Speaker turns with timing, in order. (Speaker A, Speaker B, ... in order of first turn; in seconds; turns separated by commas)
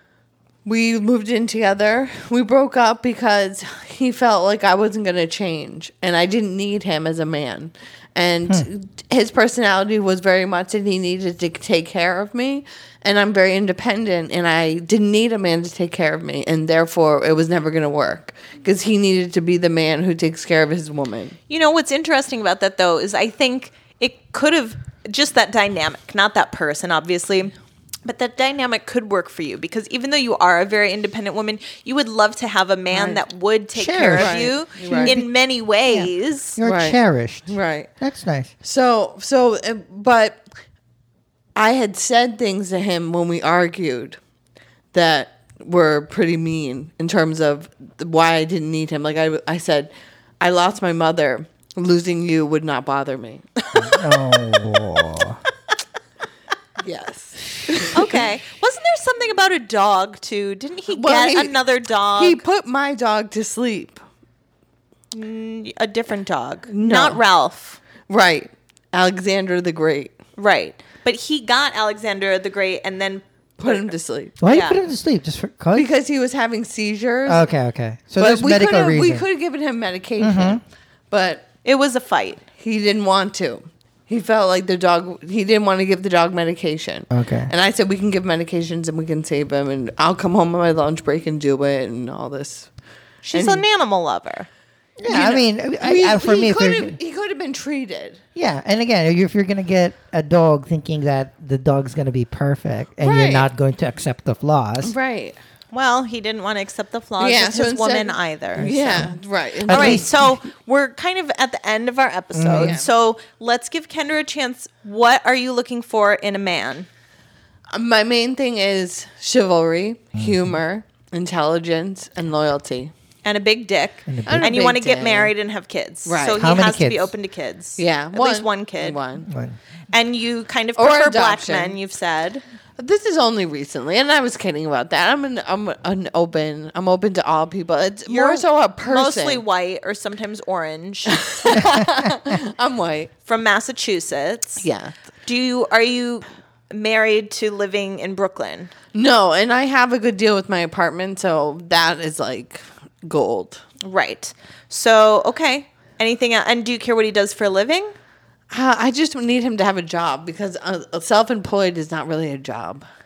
Speaker A: 0.6-21.4, Speaker B: 21.5-27.5, Speaker B: 28.0-36.6, Speaker A: 32.9-33.2, Speaker C: 33.7-35.3, Speaker A: 34.2-35.2, Speaker C: 35.9-38.5, Speaker A: 36.6-37.9, Speaker A: 38.6-40.4, Speaker A: 41.5-44.2, Speaker A: 44.9-49.9, Speaker A: 50.4-54.0, Speaker C: 53.7-55.4, Speaker A: 56.8-58.2, Speaker B: 57.9-62.4, Speaker A: 60.9-61.6, Speaker A: 62.1-64.0, Speaker B: 65.1-67.8, Speaker A: 66.7-67.2, Speaker A: 68.1-70.1, Speaker B: 70.4-73.9, Speaker A: 73.6-74.4, Speaker C: 74.4-75.9, Speaker B: 74.4-74.8, Speaker A: 75.7-77.5, Speaker C: 77.2-79.2, Speaker A: 78.2-81.5, Speaker C: 80.2-80.6, Speaker B: 81.6-82.4, Speaker A: 82.6-92.7, Speaker C: 87.1-87.5, Speaker B: 93.2-94.5, Speaker A: 93.3-93.6, Speaker C: 95.0-97.0, Speaker A: 95.1-98.2, Speaker C: 98.3-104.9, Speaker A: 103.0-103.5, Speaker A: 104.8-105.4, Speaker B: 105.7-109.1, Speaker A: 107.2-110.1, Speaker C: 108.6-109.1, Speaker C: 109.7-110.3, Speaker B: 109.7-116.9, Speaker C: 112.3-112.8, Speaker A: 112.5-112.9, Speaker A: 117.7-122.9, Speaker C: 120.2-120.6, Speaker B: 123.2-129.0, Speaker C: 124.1-124.5, Speaker A: 124.2-125.3, Speaker A: 126.0-126.5, Speaker C: 126.3-127.1, Speaker A: 127.8-129.3, Speaker C: 129.2-129.6, Speaker B: 129.9-132.4, Speaker A: 130.8-131.8, Speaker A: 132.8-139.4, Speaker B: 138.1-141.9, Speaker A: 141.1-143.1, Speaker C: 141.5-142.1, Speaker B: 143.2-144.7, Speaker A: 144.6-144.9, Speaker B: 145.2-148.7, Speaker A: 148.9-153.6, Speaker B: 153.8-157.9, Speaker A: 158.5-162.8